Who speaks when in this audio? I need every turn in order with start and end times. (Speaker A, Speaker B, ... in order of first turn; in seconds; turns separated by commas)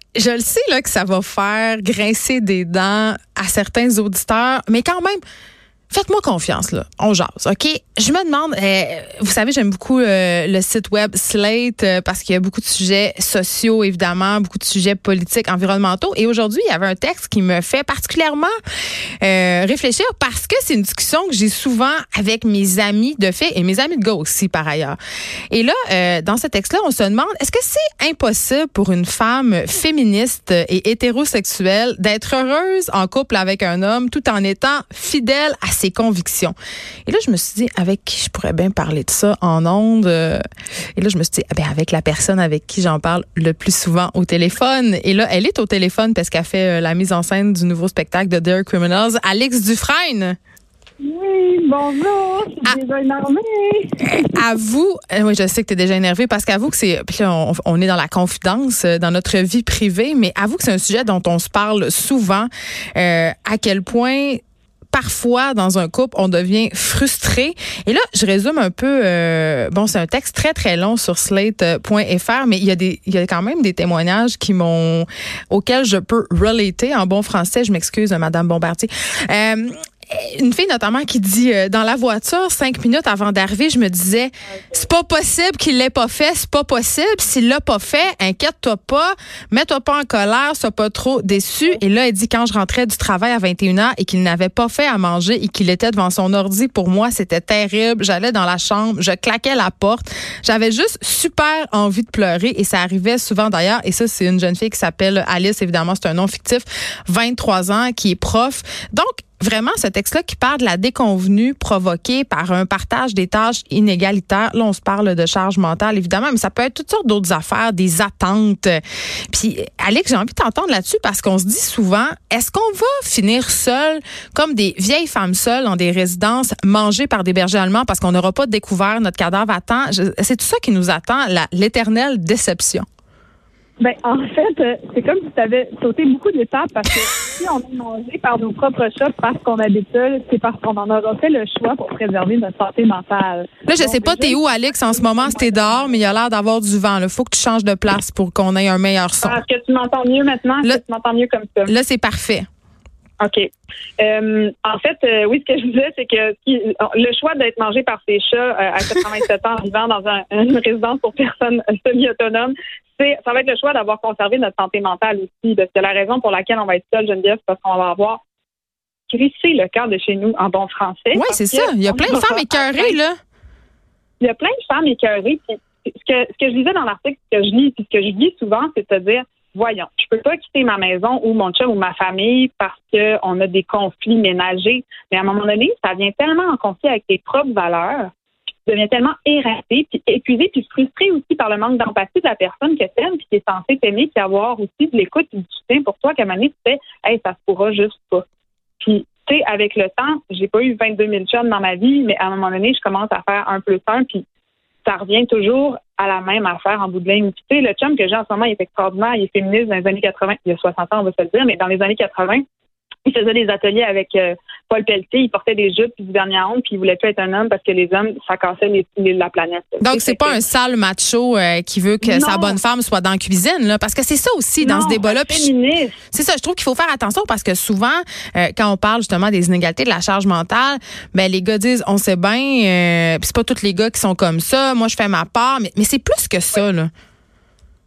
Speaker A: 0.1-5.2, Speaker A: 5.9-18.5, Speaker A: 19.2-25.0, Speaker A: 25.5-36.5, Speaker A: 37.1-40.4, Speaker A: 41.0-50.4, Speaker B: 51.0-54.4, Speaker A: 54.0-64.4, Speaker A: 64.9-132.8, Speaker B: 133.8-146.0, Speaker A: 143.7-149.4, Speaker B: 149.2-151.7, Speaker A: 151.7-152.5, Speaker B: 153.2-168.2, Speaker B: 169.1-172.9, Speaker A: 171.1-173.2, Speaker B: 174.2-188.1, Speaker B: 188.7-198.2, Speaker B: 198.8-204.2, Speaker B: 204.8-212.4, Speaker B: 213.1-220.4, Speaker A: 219.8-225.5, Speaker B: 222.0-222.6, Speaker B: 224.6-226.0, Speaker A: 226.1-236.9